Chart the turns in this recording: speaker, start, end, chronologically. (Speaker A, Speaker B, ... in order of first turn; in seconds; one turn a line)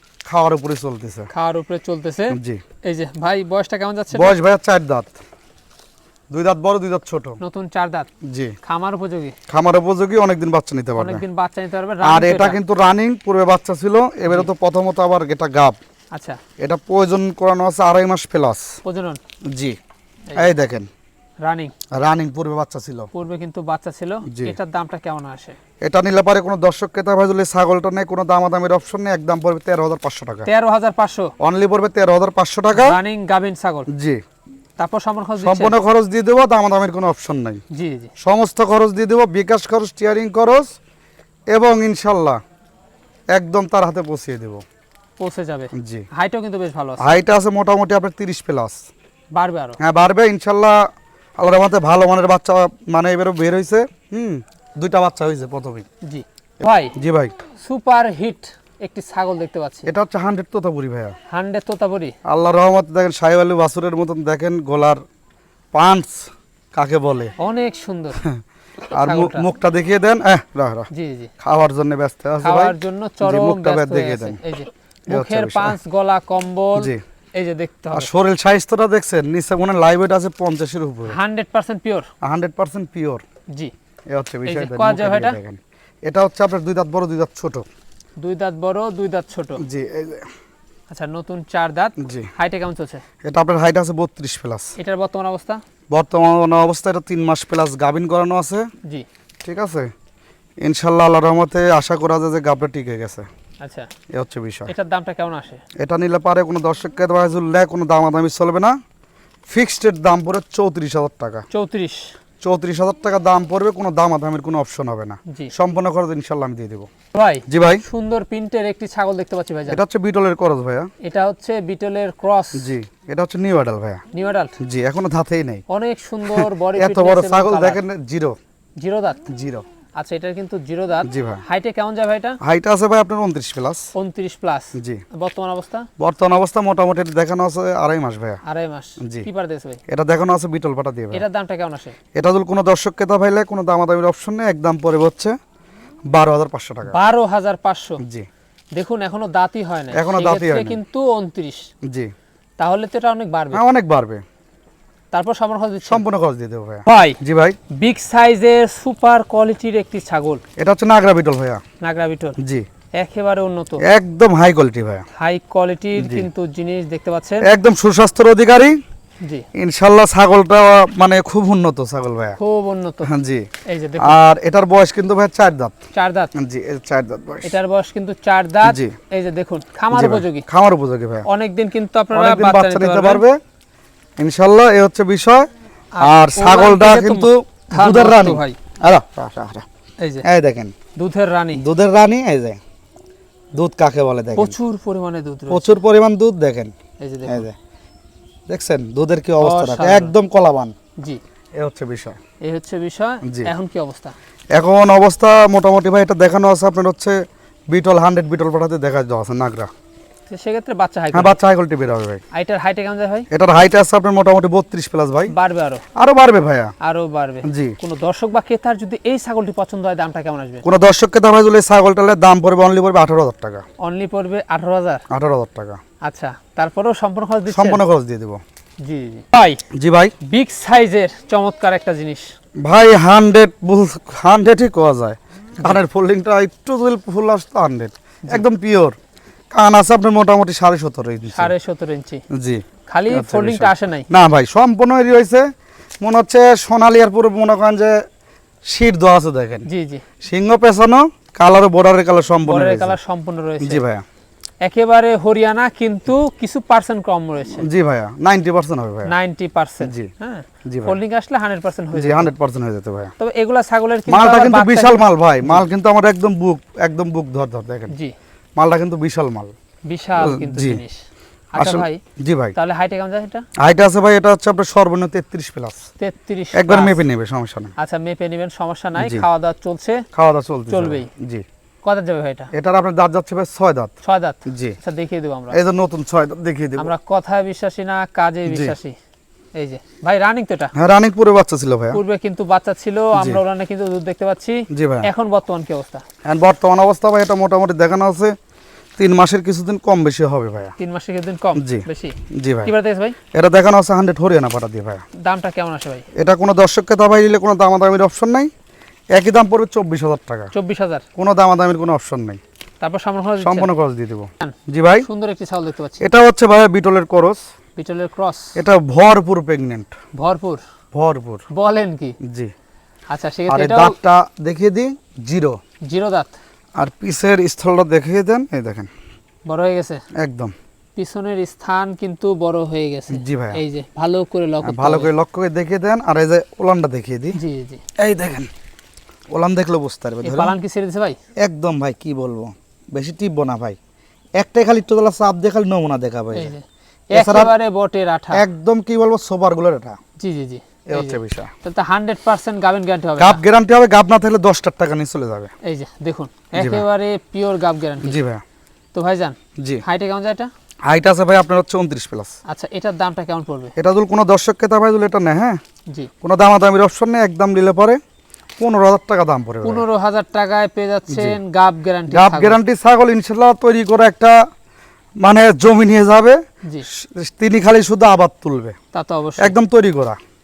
Speaker A: 0.3-1.3
Speaker B: 1.3-4.4
Speaker A: 2.3-2.6
Speaker A: 4.1-5.1
Speaker A: 6.3-7.4
Speaker B: 7.4-8.1
Speaker A: 8.2-8.6
Speaker B: 8.6-9.4
Speaker A: 9.5-11.2
Speaker B: 11.0-12.6
Speaker A: 12.0-15.8
Speaker B: 16.1-16.4
Speaker A: 16.6-18.8
Speaker B: 18.8-19.2
Speaker A: 19.5-19.8
Speaker A: 20.3-20.9
Speaker B: 21.4-21.7
Speaker A: 21.9-23.1
Speaker B: 23.1-25.6
Speaker A: 24.3-24.6
Speaker A: 25.8-30.5
Speaker B: 30.5-31.3
Speaker A: 31.4-33.0
Speaker B: 32.7-33.9
Speaker A: 33.9-34.2
Speaker B: 34.8-35.8
Speaker A: 35.4-37.6
Speaker B: 37.7-38.1
Speaker A: 38.2-40.8
Speaker A: 41.5-42.4
Speaker A: 43.3-44.6
Speaker B: 45.2-47.2
Speaker A: 45.7-46.1
Speaker A: 47.0-48.9
Speaker B: 49.3-49.8
Speaker A: 49.8-55.9
Speaker B: 56.0-57.0
Speaker A: 56.9-57.4
Speaker B: 57.6-59.9
Speaker A: 59.9-61.2
Speaker B: 61.3-62.2
Speaker A: 62.2-65.0
Speaker A: 65.7-67.3
Speaker B: 67.4-68.2
Speaker A: 68.2-70.9
Speaker B: 68.9-69.5
Speaker B: 70.9-71.3
Speaker A: 71.4-74.4
Speaker B: 72.4-78.1
Speaker A: 75.1-75.8
Speaker A: 76.8-77.0
Speaker A: 77.9-81.2
Speaker B: 81.1-82.1
Speaker A: 82.2-83.2
Speaker B: 83.5-83.7
Speaker A: 84.1-87.7
Speaker B: 84.5-85.4
Speaker B: 88.2-89.6
Speaker A: 89.6-90.3
Speaker B: 90.9-93.0
Speaker A: 92.0-92.3
Speaker A: 93.2-94.8
Speaker B: 94.8-95.6
Speaker A: 95.9-98.7
Speaker A: 99.4-99.9
Speaker A: 100.6-103.3
Speaker B: 103.6-103.9
Speaker A: 104.1-104.7
Speaker B: 104.7-105.6
Speaker A: 105.8-108.8
Speaker A: 109.5-111.5
Speaker B: 111.5-112.1
Speaker A: 112.4-116.9
Speaker B: 115.3-115.5
Speaker B: 117.1-119.8
Speaker A: 117.5-117.8
Speaker A: 119.7-120.9
Speaker B: 121.0-122.7
Speaker A: 122.5-124.0
Speaker B: 124.1-124.6
Speaker A: 124.6-125.6
Speaker B: 125.7-127.8
Speaker A: 126.3-128.4
Speaker B: 128.8-129.2
Speaker A: 129.3-129.7
Speaker B: 129.9-132.4
Speaker A: 131.0-131.4
Speaker A: 132.4-133.9
Speaker B: 133.9-135.9
Speaker A: 134.8-135.0
Speaker A: 136.0-138.4
Speaker B: 138.4-139.8
Speaker A: 139.0-139.3
Speaker A: 139.9-141.2
Speaker B: 141.1-142.0
Speaker A: 142.1-145.4
Speaker A: 146.1-147.0
Speaker B: 146.9-148.0
Speaker A: 148.0-148.3
Speaker B: 148.8-151.7
Speaker A: 149.9-150.8
Speaker A: 151.8-152.1
Speaker B: 152.6-153.6
Speaker A: 153.5-154.2
Speaker B: 155.1-156.0
Speaker A: 155.8-157.6
Speaker B: 156.9-157.2
Speaker B: 157.7-160.4
Speaker A: 160.6-161.6
Speaker B: 161.8-162.4
Speaker A: 162.4-162.7
Speaker B: 162.9-163.8
Speaker A: 163.8-165.1
Speaker B: 165.2-167.5
Speaker A: 166.0-166.3
Speaker A: 167.4-168.8
Speaker B: 169.2-169.5
Speaker A: 169.6-172.4
Speaker B: 172.4-173.1
Speaker A: 173.1-173.5
Speaker B: 173.7-174.2
Speaker A: 174.0-175.8
Speaker B: 175.9-176.3
Speaker A: 176.3-177.5
Speaker B: 177.4-180.5
Speaker A: 178.6-179.0
Speaker A: 179.9-181.3
Speaker B: 181.2-183.2
Speaker A: 182.1-183.4
Speaker A: 184.2-185.5
Speaker B: 185.9-188.6
Speaker A: 186.0-189.7
Speaker B: 190.0-190.3
Speaker A: 190.2-190.8
Speaker B: 190.9-191.6
Speaker A: 191.6-192.6
Speaker A: 193.5-194.6
Speaker B: 194.3-195.8
Speaker A: 195.5-196.8
Speaker B: 197.0-197.5
Speaker A: 197.3-197.6
Speaker A: 198.5-200.8
Speaker B: 199.4-200.1
Speaker A: 201.6-202.2
Speaker B: 202.4-204.2
Speaker A: 203.2-203.5
Speaker A: 204.5-209.7
Speaker B: 210.3-211.4
Speaker A: 211.1-212.2
Speaker B: 212.3-213.3
Speaker A: 213.3-215.3
Speaker B: 215.3-215.8
Speaker A: 216.0-216.7
Speaker B: 216.8-220.7
Speaker A: 217.4-217.8
Speaker A: 220.6-223.7
Speaker B: 223.8-225.0
Speaker A: 225.1-225.8
Speaker B: 226.0-227.8
Speaker A: 227.5-228.4
Speaker B: 228.8-229.6
Speaker A: 229.7-230.2
Speaker B: 230.2-232.3
Speaker A: 232.6-239.0
Speaker A: 239.5-241.5
Speaker B: 241.3-242.2
Speaker A: 242.3-245.5
Speaker B: 242.9-244.1
Speaker A: 246.0-248.0
Speaker A: 248.7-249.7
Speaker B: 249.7-250.1
Speaker A: 250.2-253.0
Speaker B: 252.4-253.8
Speaker A: 253.6-254.0
Speaker B: 254.6-257.7
Speaker A: 257.6-259.1
Speaker B: 259.1-262.3
Speaker A: 259.8-260.1
Speaker A: 260.6-261.0
Speaker A: 261.9-263.1
Speaker B: 263.2-265.7
Speaker A: 264.1-268.0
Speaker B: 267.9-268.1
Speaker A: 268.6-269.5
Speaker B: 269.9-272.0
Speaker A: 270.2-270.8
Speaker A: 271.6-272.6
Speaker B: 272.6-273.5
Speaker A: 273.6-275.9
Speaker B: 276.0-277.0
Speaker A: 276.5-277.7
Speaker B: 277.8-280.1
Speaker A: 279.0-279.3
Speaker A: 280.1-281.4
Speaker B: 280.7-281.1
Speaker B: 281.8-282.5
Speaker A: 282.5-283.9
Speaker B: 284.0-285.6
Speaker A: 284.5-284.8
Speaker A: 285.5-286.9
Speaker B: 286.8-289.0
Speaker A: 288.5-288.8
Speaker B: 289.6-290.7
Speaker A: 290.7-292.0
Speaker B: 291.9-296.0
Speaker A: 293.1-293.4
Speaker A: 294.7-295.1
Speaker A: 296.2-298.4
Speaker A: 299.0-300.8
Speaker B: 300.8-303.2
Speaker A: 301.6-302.7
Speaker A: 303.3-305.1
Speaker B: 305.1-306.1
Speaker A: 306.1-308.5
Speaker A: 309.1-310.5
Speaker B: 310.5-311.1
Speaker A: 311.2-312.4
Speaker B: 312.8-313.7
Speaker A: 313.4-315.1
Speaker B: 314.4-316.1
Speaker A: 316.0-317.4
Speaker B: 317.8-318.6
Speaker A: 318.6-319.9
Speaker B: 320.1-320.6
Speaker A: 320.9-321.5
Speaker B: 321.5-322.2
Speaker A: 322.2-322.5
Speaker B: 323.1-324.0
Speaker A: 323.5-325.6
Speaker B: 325.9-326.3
Speaker A: 326.8-328.9
Speaker B: 329.5-330.0
Speaker A: 330.1-330.5
Speaker B: 331.0-335.1
Speaker A: 333.1-333.6
Speaker A: 334.6-337.4
Speaker B: 337.3-337.8
Speaker A: 338.0-338.5
Speaker A: 339.3-340.5
Speaker B: 340.2-341.2
Speaker A: 341.4-343.8
Speaker A: 344.4-346.5
Speaker B: 346.3-348.4
Speaker A: 347.1-347.5
Speaker A: 348.3-350.0
Speaker B: 350.2-353.4
Speaker A: 350.9-351.5
Speaker A: 353.2-355.5
Speaker B: 355.6-358.2
Speaker A: 356.6-356.9
Speaker A: 358.0-358.4
Speaker B: 358.9-360.5
Speaker A: 359.6-359.8
Speaker A: 360.9-362.4
Speaker B: 362.5-363.7
Speaker A: 363.8-365.6
Speaker A: 366.2-368.0
Speaker A: 368.6-369.9
Speaker B: 369.6-372.6
Speaker A: 371.1-371.4
Speaker A: 372.1-374.4
Speaker A: 375.2-378.8
Speaker B: 378.9-379.6
Speaker A: 379.4-380.2